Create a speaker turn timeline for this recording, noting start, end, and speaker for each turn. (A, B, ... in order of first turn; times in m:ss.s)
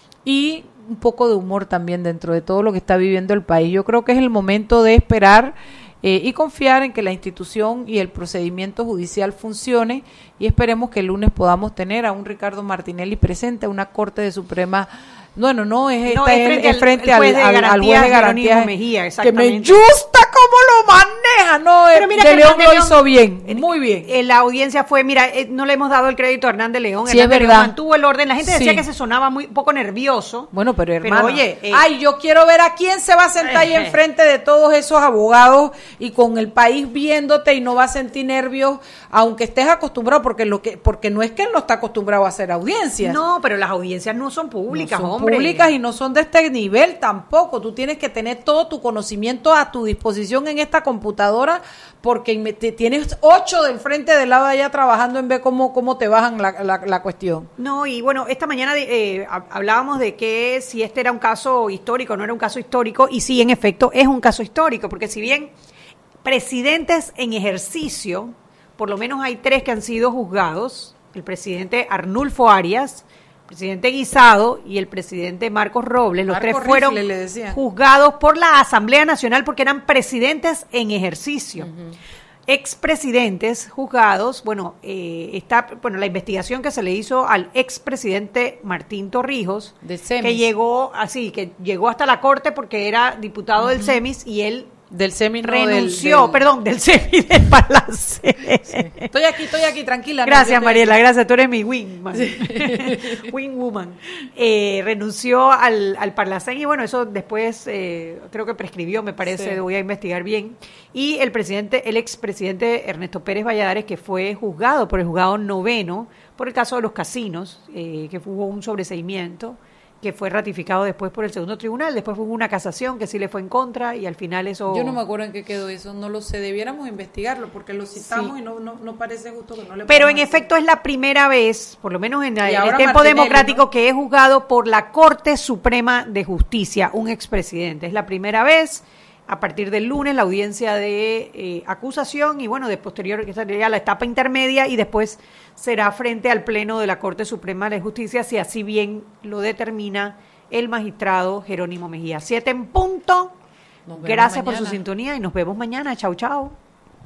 0:00.2-0:24.1 A
0:16.1-0:19.7 B
0:21.9-0:30.5 B
0:27.1-0:27.7 A
0:28.4-0:28.8 A
0:30.5-0:43.2 A
0:31.0-0:31.8 B
0:33.4-0:34.0 B
0:43.0-0:45.7 B
0:44.7-0:57.5 A
0:57.6-1:05.5 B
1:06.2-1:21.7 B
1:16.3-1:17.6 A
1:21.6-1:22.0 A
1:22.5-1:34.7 B
1:29.8-1:30.4 A
1:33.6-1:34.0 A
1:34.9-1:36.4 A
1:35.4-1:39.1 B
1:38.7-1:41.0 A
1:40.2-2:05.0 B
1:42.1-1:43.2 A
1:49.2-1:49.6 A
2:04.7-2:10.4 A
2:08.0-2:08.3 B
2:09.9-2:33.3 B
2:12.4-2:13.6 A
2:33.8-2:34.8 A
2:34.0-2:36.5 B